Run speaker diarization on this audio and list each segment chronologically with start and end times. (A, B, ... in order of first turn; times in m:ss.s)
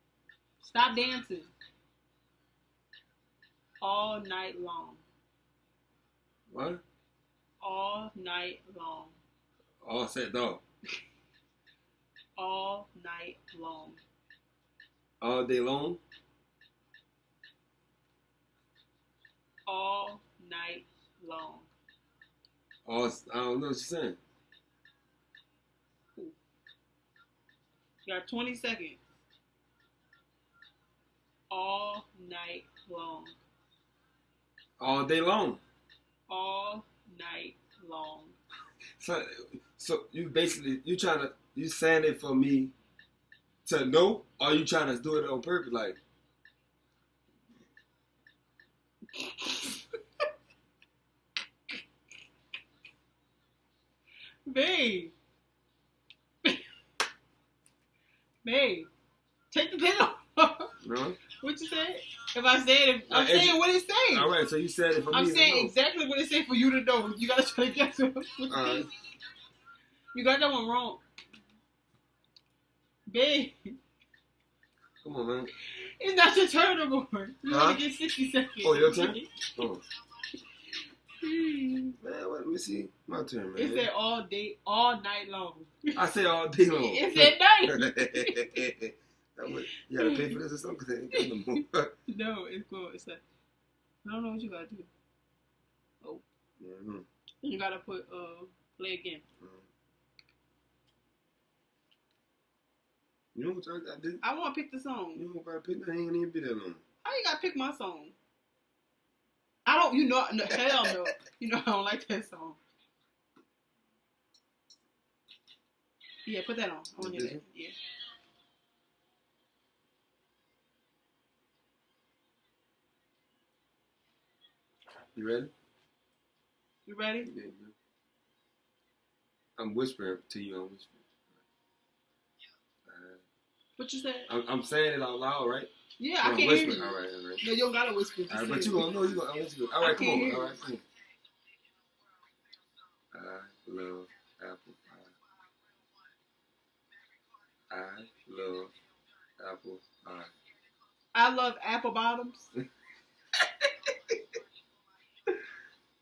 0:00.6-0:01.5 A
0:03.8-0:05.0 A
0:06.5-0:06.8 B
0:07.6-0:09.2 A
0:09.8-0:10.6 B
0:12.4-0:14.0 A
0:15.2-0:16.0 B
0:19.6-0:21.7 A
0:22.8-0:24.2 B
0:28.0-0:29.0 A
0:31.5-0:33.4 A
0:34.8-0:35.6 B
0:36.3-0:38.4 A
0:39.0-0:42.7 B
0:43.6-0:46.0 B
0:49.1-0:49.8 A
0:54.5-0:55.1 A
0:58.4-0:58.9 A
0:59.5-1:00.8 A
1:00.8-1:01.2 B
1:01.4-1:04.3 A
1:03.1-1:05.7 B
1:05.1-1:08.9 A
1:08.5-1:08.9 B
1:10.1-1:11.0 A
1:13.1-1:13.8 A
1:15.0-1:15.5 B
1:15.6-1:19.5 A
1:17.5-1:17.8 B
1:18.6-1:19.8 B
1:21.1-1:22.0 A
1:22.0-1:23.9 B
1:23.5-1:26.0 A
1:26.0-1:31.9 B
1:26.8-1:28.7 A
1:29.9-1:30.4 A
1:31.1-1:33.2 A
1:34.0-1:34.9 A
1:36.6-1:37.0 B
1:37.4-1:39.2 A
1:39.4-1:39.7 B
1:43.3-1:44.2 B
1:44.2-1:45.2 A
1:45.1-1:46.8 B
1:47.0-1:48.2 A
1:49.6-1:52.6 A
1:56.2-1:57.8 A
1:57.0-1:57.4 B
2:05.1-2:05.5 B
2:06.8-2:07.3 A
2:07.2-2:07.7 B
2:09.6-2:11.0 B
2:12.8-2:13.2 B
2:13.8-2:14.3 A
2:14.3-2:15.7 B
2:16.0-2:18.9 A
2:16.2-2:17.4 B
2:18.3-2:20.8 B
2:19.8-2:20.6 A
2:23.1-2:25.1 B
2:27.7-2:28.7 B
2:29.4-2:30.3 B
2:31.1-2:32.5 A